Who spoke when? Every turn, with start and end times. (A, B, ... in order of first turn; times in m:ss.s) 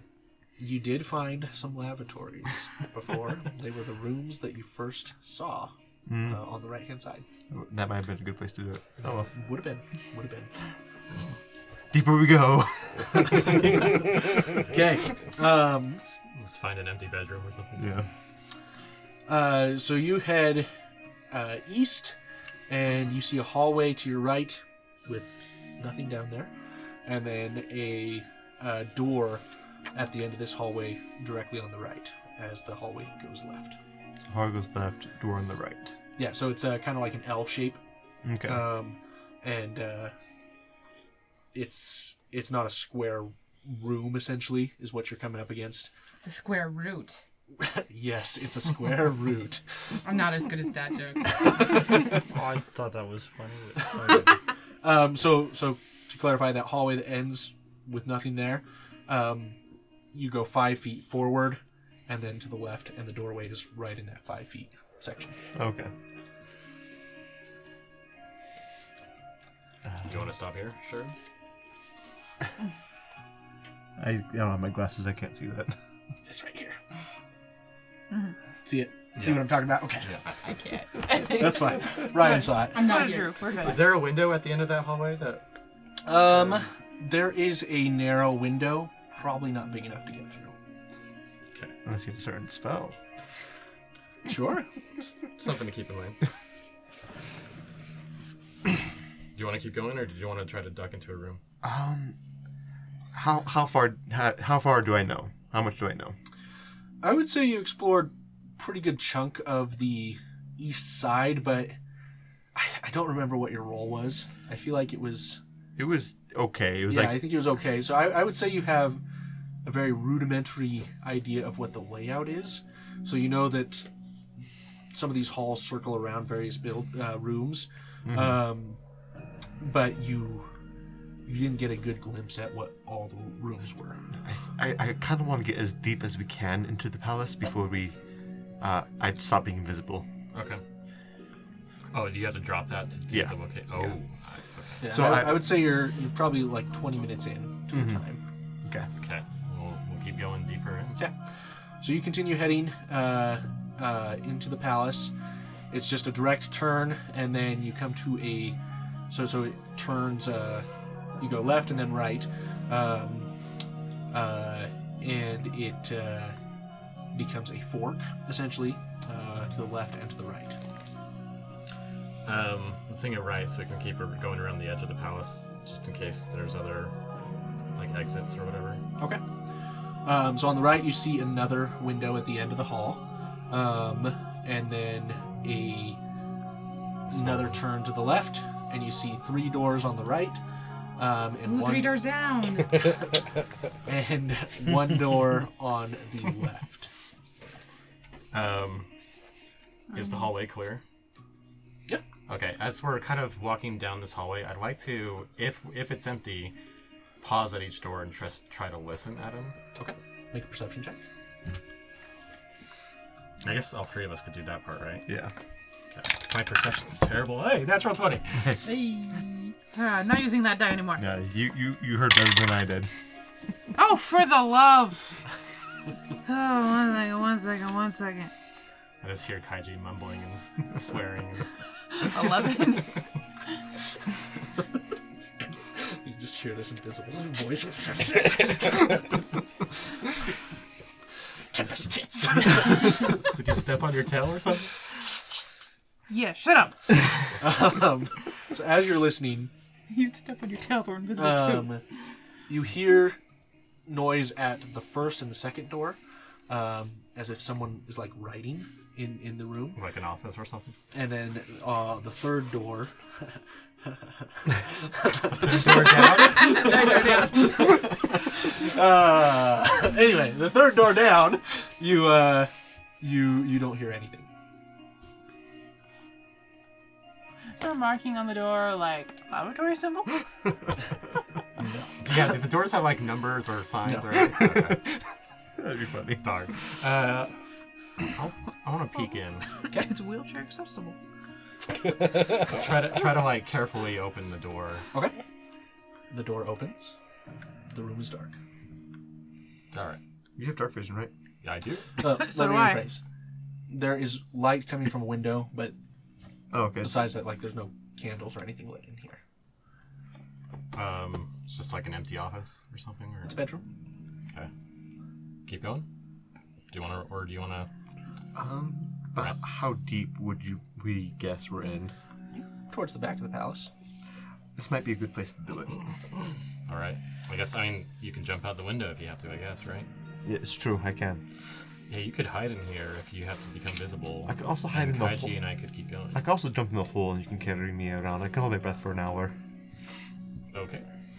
0:00.6-0:05.7 A
0:06.1-0:06.4 B
0:06.2-0:07.2 A
0:07.5-0:09.3 B
0:09.0-0:10.5 A
0:11.9-0:13.7 B
0:14.6-0:16.0 A
0:16.1-0:18.1 C
0:17.8-0:18.1 B
0:19.3-0:20.7 A
0:21.3-0:22.2 A
0:22.7-0:26.5 A
0:27.0-0:33.8 A
0:34.3-0:36.0 B
0:36.2-0:37.8 A
0:38.2-0:38.7 B
0:38.4-0:40.1 A
0:41.5-0:45.9 A
0:46.2-0:47.2 D
0:47.6-0:49.6 A
0:50.0-0:51.9 D
0:52.2-0:54.4 E
0:54.8-0:59.6 A
1:00.1-1:05.4 A
1:05.6-1:05.9 B
1:10.0-1:11.1 C
1:14.0-1:15.8 B
1:16.2-1:16.8 A
1:18.6-1:20.2 A
1:19.2-1:19.5 C
1:20.4-1:22.1 D
1:21.2-1:22.8 A
1:22.2-1:23.9 F
1:22.7-1:23.8 D
1:23.6-1:25.4 C
1:26.0-1:30.6 A
1:31.8-1:33.0 B
1:34.3-1:34.7 A
1:35.0-1:36.2 C
1:39.4-1:41.4 C
1:41.6-1:42.2 B
1:43.1-1:46.2 B
1:47.0-1:51.8 A
1:52.6-1:55.4 A
1:55.8-1:57.3 B
1:56.9-1:59.0 A
1:59.6-2:03.9 A
2:04.9-2:08.8 A
2:08.0-2:08.4 B
2:09.6-2:10.5 A
2:11.3-2:14.0 A
2:14.2-2:18.0 B
2:18.6-2:20.1 B
2:20.3-2:20.6 C
2:21.9-2:24.9 C
2:23.1-2:24.0 B
2:24.8-2:28.2 A
2:24.9-2:25.5 B
2:27.7-2:28.0 B
2:29.0-2:31.0 C
2:31.8-2:35.1 A
2:35.7-2:38.6 A
2:39.1-2:40.7 A
2:41.2-2:43.3 A
2:44.1-2:46.4 A
2:47.1-2:50.6 A
2:52.2-2:56.9 C
2:57.8-2:58.8 C
3:00.0-3:06.0 A
3:07.1-3:07.6 C
3:07.1-3:10.4 A
3:11.0-3:12.0 A
3:11.4-3:13.0 D
3:13.9-3:16.9 A
3:18.3-3:18.9 C
3:19.9-3:20.3 F
3:19.9-3:20.8 C
3:22.3-3:26.5 C
3:27.2-3:29.6 C
3:29.8-3:31.0 A
3:33.4-3:35.1 C
3:35.1-3:35.3 B
3:35.9-3:38.5 C
3:38.4-3:39.0 B
3:38.6-3:41.0 F
3:41.0-3:42.9 B
3:43.8-3:45.2 F
3:46.2-3:48.3 F
3:49.0-3:51.5 C
3:51.9-3:52.9 F
3:55.8-3:59.2 A
4:01.5-4:03.1 A
4:02.4-4:04.8 C
4:06.1-4:07.0 F
4:07.4-4:09.5 A
4:09.9-4:11.8 F
4:11.2-4:11.8 A
4:12.5-4:13.2 A
4:13.9-4:19.8 A
4:19.8-4:20.7 C
4:20.9-4:34.3 A
4:25.4-4:26.6 C
4:26.5-4:27.5 D
4:37.6-4:40.2 F
4:41.6-4:41.9 A
4:42.0-4:44.8 C
4:43.8-4:44.2 A
4:45.6-4:46.3 B
4:46.2-4:47.3 C
4:48.1-4:49.5 C
4:49.7-4:51.0 F
4:52.4-4:54.9 C
4:54.9-4:55.2 A
4:56.1-4:57.0 A
4:57.7-4:58.4 A
4:59.7-5:00.0 C
5:00.4-5:01.1 B
5:01.4-5:01.9 C
5:02.0-5:03.0 A
5:02.0-5:03.0 F
5:03.7-5:05.8 A
5:06.5-5:07.1 B
5:06.8-5:09.2 A
5:10.7-5:13.4 C
5:13.3-5:13.6 A
5:15.5-5:15.9 C
5:16.7-5:17.7 C
5:18.4-5:21.9 B
5:22.7-5:23.7 A
5:24.6-5:25.8 B
5:26.7-5:29.9 C
5:30.2-5:31.2 B
5:31.9-5:36.2 C
5:34.3-5:35.4 B
5:36.1-5:39.4 B
5:40.5-5:40.9 C